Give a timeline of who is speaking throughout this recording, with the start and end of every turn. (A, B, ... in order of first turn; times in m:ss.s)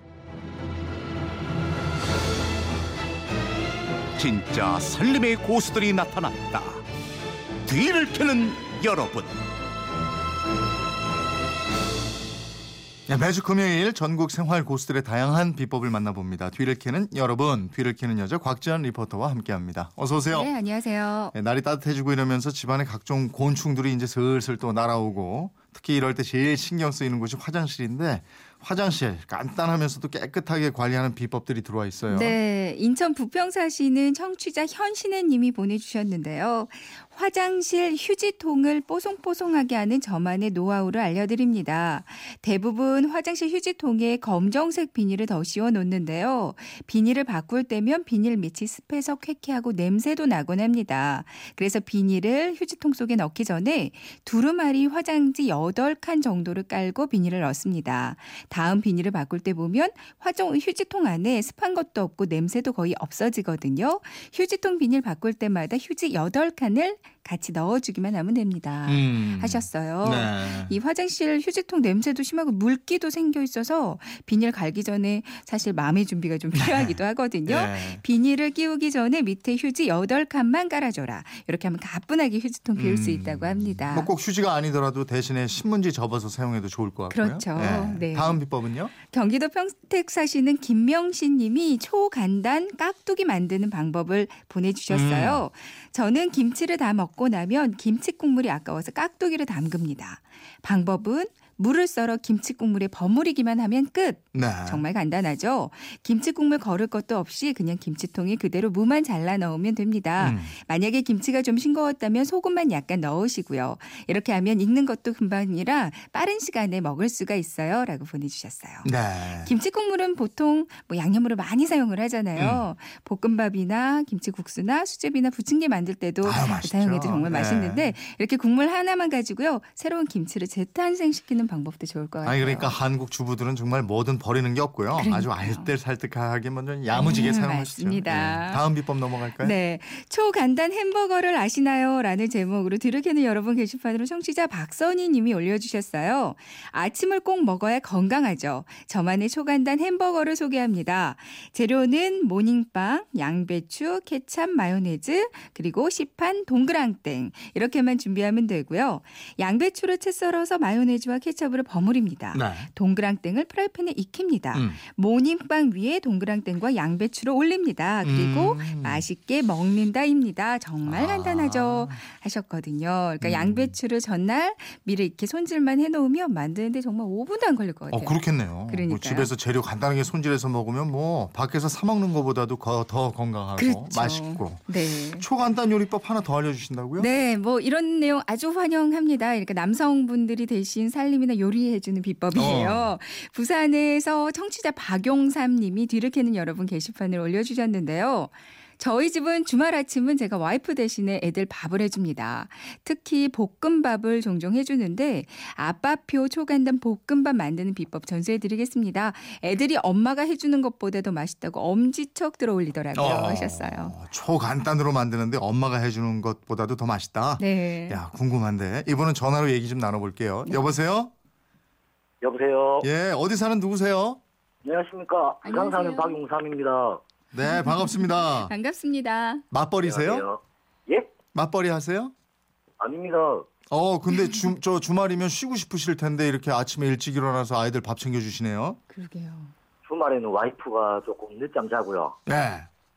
0:04.2-0:06.8 A
0:07.6-0:09.3 A
0:13.1-0:20.5 B
0:20.3-0:21.3 C
0:21.3-0:32.4 B
0:32.1-1:24.1 C
1:08.8-1:10.8 B
1:16.5-1:18.0 B
1:22.8-1:28.9 B
1:27.1-2:12.8 C
1:34.9-1:35.4 B
1:44.3-1:44.8 B
1:50.2-1:50.5 B
1:58.8-1:59.5 B
2:02.4-2:02.6 B
2:06.2-2:07.9 B
2:12.2-2:19.6 B
2:14.9-2:15.7 C
2:16.9-2:59.3 C
2:42.3-2:42.7 B
2:48.0-2:49.0 B
2:50.8-2:52.0 B
2:53.2-2:53.8 B
2:57.9-3:07.1 B
3:03.6-3:05.2 C
3:07.0-3:34.0 C
3:12.3-3:12.9 B
3:33.0-3:41.1 B
3:37.4-3:38.0 C
3:42.2-3:42.9 D
3:42.8-3:44.2 B
3:44.6-3:47.0 D
3:45.4-3:46.2 C
3:47.3-3:48.5 B
3:47.4-3:49.4 C
3:49.5-3:50.2 B
3:49.8-3:51.1 D
3:51.3-3:52.1 B
3:52.8-3:53.5 D
3:53.7-3:58.8 B
3:58.9-3:59.5 C
3:59.8-4:02.2 D
4:02.3-4:02.7 B